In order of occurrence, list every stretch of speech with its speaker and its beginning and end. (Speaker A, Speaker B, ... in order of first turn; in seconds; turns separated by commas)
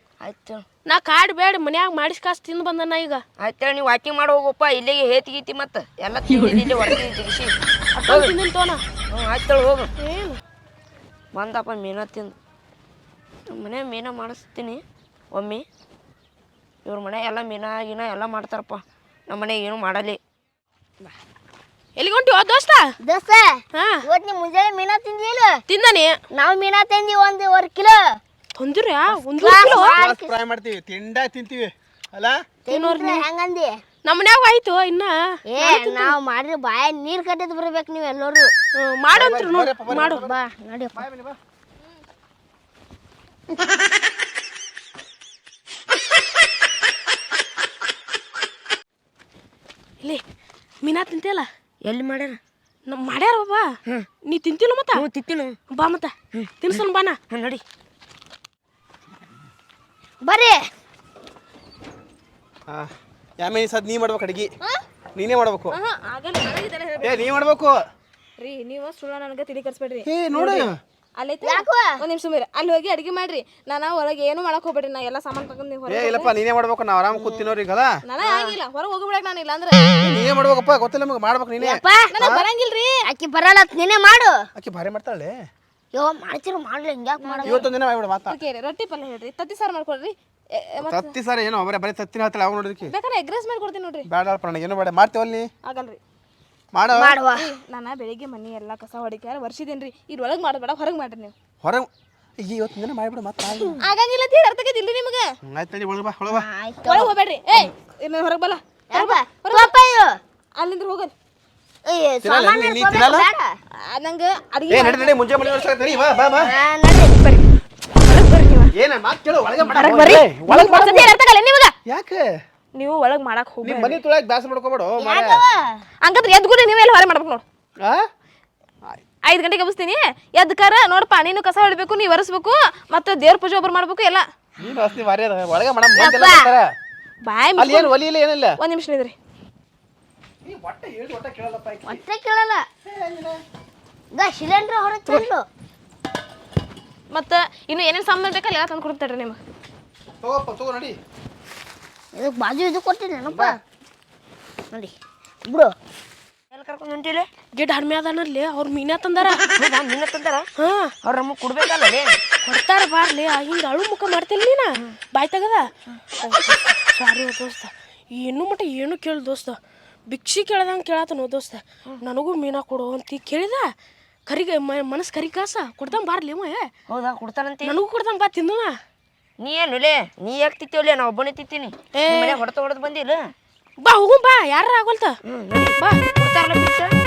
Speaker A: 0.2-0.7, Speaker B: 0.9-3.2, Speaker A: 3.4-7.5, Speaker B: 8.0-8.8, Speaker A: 9.1-9.9, Speaker B: 10.0-10.4, Speaker A: 11.3-12.4, Speaker A: 13.5-15.7, Speaker A: 16.9-20.2, Speaker B: 22.0-22.9, Speaker C: 23.0-25.6, Speaker B: 25.7-26.2, Speaker C: 26.3-28.2, Speaker B: 28.6-30.0, Speaker C: 29.4-30.3, Speaker D: 29.6-32.5, Speaker C: 32.6-33.8, Speaker B: 32.7-33.3, Speaker B: 34.0-36.2, Speaker C: 35.5-38.5, Speaker B: 38.8-40.2, Speaker D: 39.1-40.4, Speaker C: 40.2-41.0, Speaker D: 41.0-41.4, Speaker B: 50.8-51.5, Speaker A: 51.9-52.4, Speaker B: 52.9-53.7, Speaker B: 54.3-55.0, Speaker A: 55.0-55.6, Speaker B: 55.7-57.2, Speaker A: 57.3-57.6, Speaker C: 60.2-60.6, Speaker D: 62.7-64.5, Speaker D: 65.2-65.8, Speaker E: 65.7-67.3, Speaker D: 67.0-67.8, Speaker E: 68.4-76.4, Speaker D: 70.0-70.7, Speaker C: 71.4-72.0, Speaker D: 75.9-78.0, Speaker C: 77.2-77.5, Speaker E: 78.1-79.9, Speaker C: 78.2-78.6, Speaker D: 80.0-82.5, Speaker C: 81.6-82.2, Speaker E: 82.1-83.0, Speaker C: 83.1-84.5, Speaker D: 84.5-85.4, Speaker C: 86.0-87.6, Speaker E: 87.2-87.7, Speaker D: 87.4-88.4, Speaker E: 88.3-91.1, Speaker D: 90.9-92.9, Speaker E: 92.9-94.1, Speaker D: 94.1-95.5, Speaker E: 95.6-96.0, Speaker D: 96.7-97.2, Speaker C: 97.0-97.5, Speaker E: 97.2-101.3, Speaker D: 101.6-101.9, Speaker D: 102.4-103.8, Speaker E: 103.8-105.3, Speaker D: 105.5-106.5, Speaker C: 106.3-107.6, Speaker E: 106.8-109.7, Speaker C: 108.9-110.2, Speaker E: 110.6-111.1, Speaker C: 111.9-113.5, Speaker D: 112.2-113.3, Speaker E: 113.9-115.7, Speaker D: 114.7-116.5, Speaker C: 116.4-117.2, Speaker E: 117.1-117.5, Speaker E: 118.1-118.7, Speaker D: 118.8-121.1, Speaker E: 119.7-121.8, Speaker D: 121.9-122.3, Speaker E: 122.8-124.0, Speaker D: 123.6-125.4, Speaker C: 125.0-125.8, Speaker E: 126.0-127.4, Speaker D: 127.8-128.1, Speaker E: 129.2-134.2, Speaker D: 134.6-136.7, Speaker C: 136.0-136.5, Speaker E: 137.3-137.9, Speaker D: 137.6-138.6, Speaker E: 138.6-139.2, Speaker D: 140.4-142.0, Speaker C: 141.9-142.7, Speaker D: 142.8-143.4, Speaker C: 144.1-145.5, Speaker E: 147.1-149.4, Speaker D: 150.2-151.0, Speaker C: 152.1-153.6, Speaker D: 153.3-153.6, Speaker C: 155.5-155.7, Speaker A: 156.5-157.3, Speaker B: 157.6-159.4, Speaker A: 159.6-160.5, Speaker B: 160.6-160.9, Speaker A: 161.1-162.1, Speaker B: 162.4-165.7, Speaker B: 166.5-173.7, Speaker B: 174.3-176.7, Speaker A: 176.9-177.8, Speaker B: 177.6-178.8, Speaker A: 179.4-183.3, Speaker B: 181.9-182.4, Speaker B: 183.8-185.2, Speaker A: 185.3-186.9